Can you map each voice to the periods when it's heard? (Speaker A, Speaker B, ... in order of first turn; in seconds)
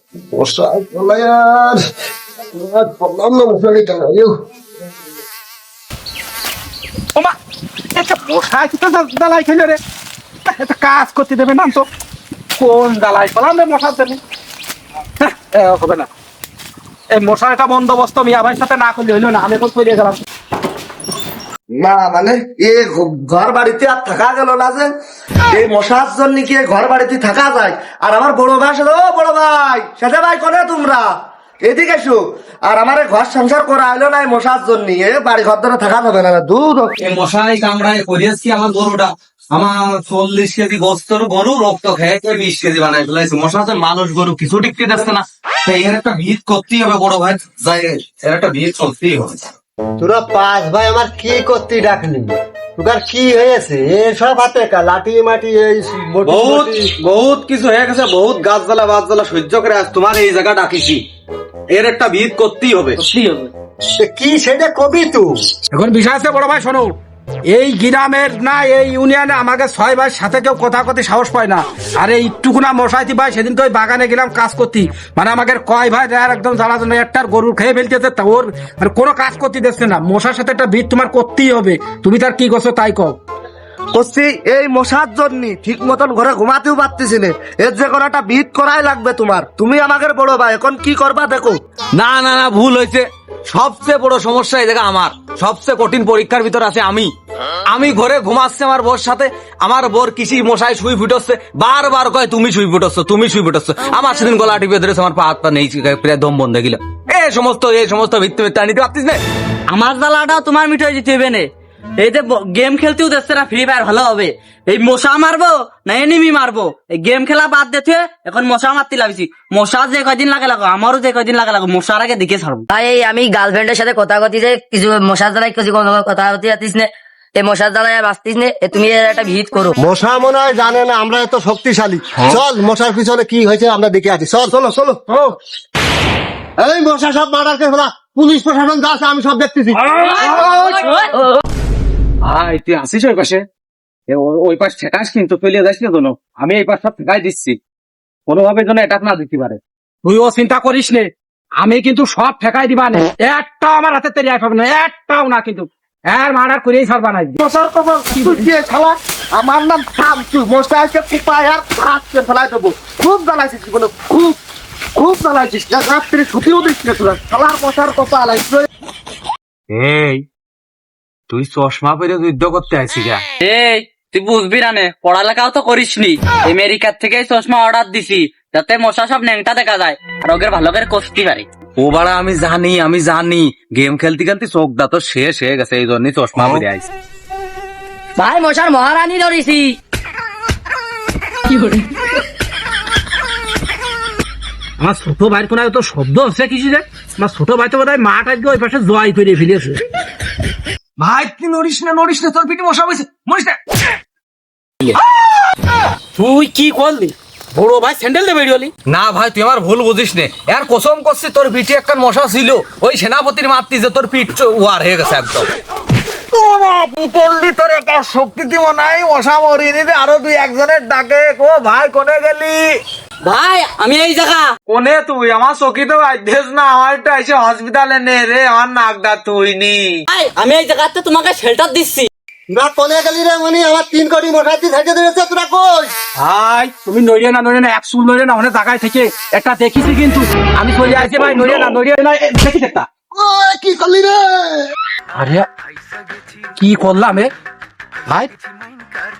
Speaker A: 0.3-1.4, 3.6-4.1, 21.7-24.9, 25.5-31.1, 31.6-36.9, 83.9-91.6, 134.5-135.1, 157.4-164.4, 164.9-168.7
Speaker B: 7.9-9.8, 10.5-11.9, 12.6-14.2, 15.2-16.1, 17.1-20.2, 65.7-66.9, 67.5-83.2, 150.0-157.4, 158.1-158.4, 194.8-199.8, 206.2-208.7, 236.2-242.9, 245.1-245.4, 246.6-247.3
Speaker C: 37.0-49.5, 56.2-61.0, 61.7-63.0, 92.0-97.1, 97.7-109.2, 142.2-143.4, 144.1-147.6, 148.3-149.6, 169.7-170.2, 171.3-173.2, 181.8-186.9, 201.0-203.6, 208.9-215.5, 216.3-222.7, 224.7-230.0
Speaker D: 50.0-56.9, 64.0-65.4, 129.8-134.5, 136.6-139.8, 232.5-235.9, 243.2-244.4
Speaker E: 63.0-63.5, 109.7-111.5, 112.0-122.7, 173.4-181.4, 223.2-224.5, 230.1-232.1
Speaker F: 122.7-129.8, 188.2-189.8, 191.5-191.8